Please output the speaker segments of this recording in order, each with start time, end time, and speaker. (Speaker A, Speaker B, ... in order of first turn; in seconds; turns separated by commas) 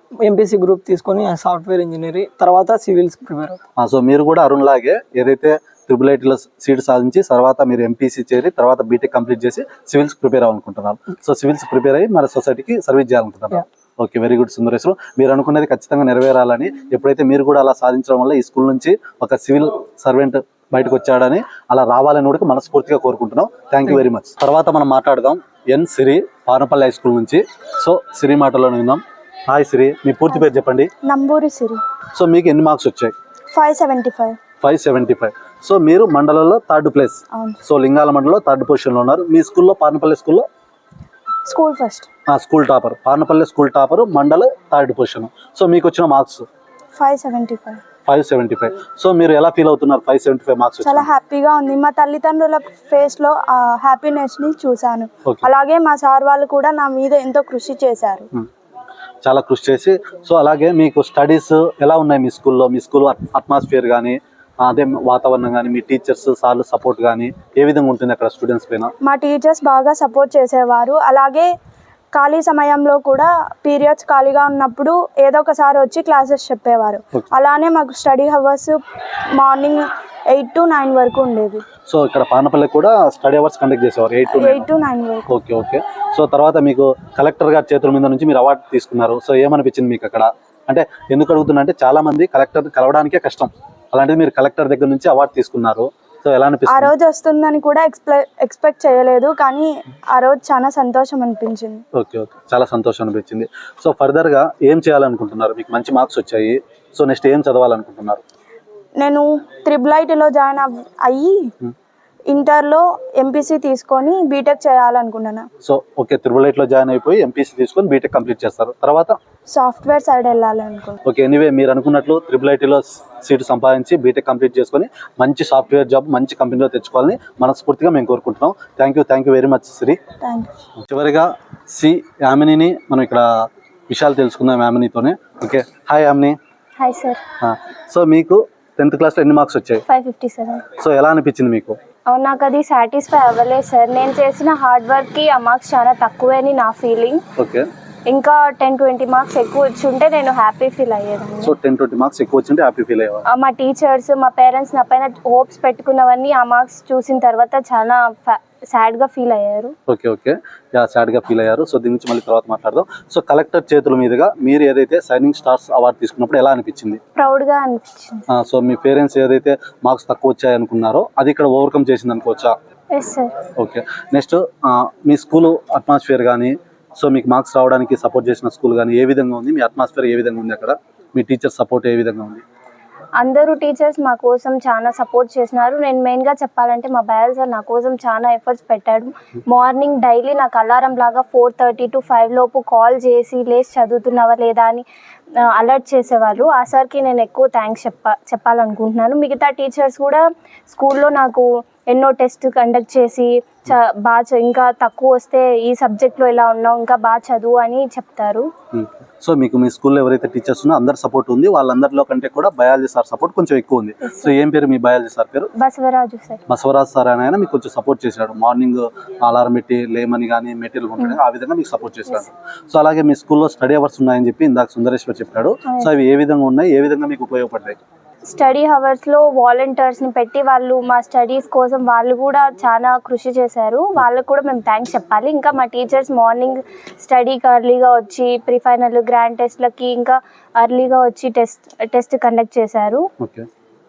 Speaker A: 0.2-3.6, Speaker B: 3.8-30.9, Speaker C: 31.0-31.8, Speaker B: 32.1-33.1, Speaker C: 33.5-34.4, Speaker B: 34.6-40.5, Speaker C: 41.5-42.1, Speaker B: 42.3-46.4, Speaker C: 46.9-47.8, Speaker B: 48.1-51.1, Speaker C: 50.8-58.3, Speaker B: 55.2-55.5, Speaker B: 59.2-68.9, Speaker C: 69.0-71.5, Speaker C: 72.1-78.8, Speaker C: 79.3-81.6, Speaker B: 81.9-84.6, Speaker C: 84.3-85.3, Speaker B: 85.3-96.9, Speaker C: 96.7-101.8, Speaker B: 101.9-108.2, Speaker C: 109.0-111.5, Speaker C: 112.3-115.5, Speaker B: 115.6-119.2, Speaker C: 119.5-121.0, Speaker B: 121.0-130.0, Speaker C: 130.2-130.5, Speaker B: 130.8-136.4, Speaker D: 136.8-137.2, Speaker B: 137.4-139.8, Speaker D: 139.9-140.7, Speaker B: 140.8-141.8, Speaker D: 142.1-147.2, Speaker B: 147.4-147.7, Speaker D: 148.1-151.5, Speaker B: 151.4-153.2, Speaker D: 153.3-159.7, Speaker B: 159.9-167.0, Speaker D: 167.2-168.2, Speaker B: 168.3-172.5, Speaker D: 172.9-173.3, Speaker B: 173.6-182.4, Speaker D: 183.2-194.8, Speaker D: 195.4-208.5, Speaker B: 208.7-215.5, Speaker D: 214.0-214.3, Speaker D: 215.6-216.4, Speaker B: 216.5-227.8, Speaker D: 225.7-225.9, Speaker D: 228.2-243.1, Speaker B: 243.2-243.5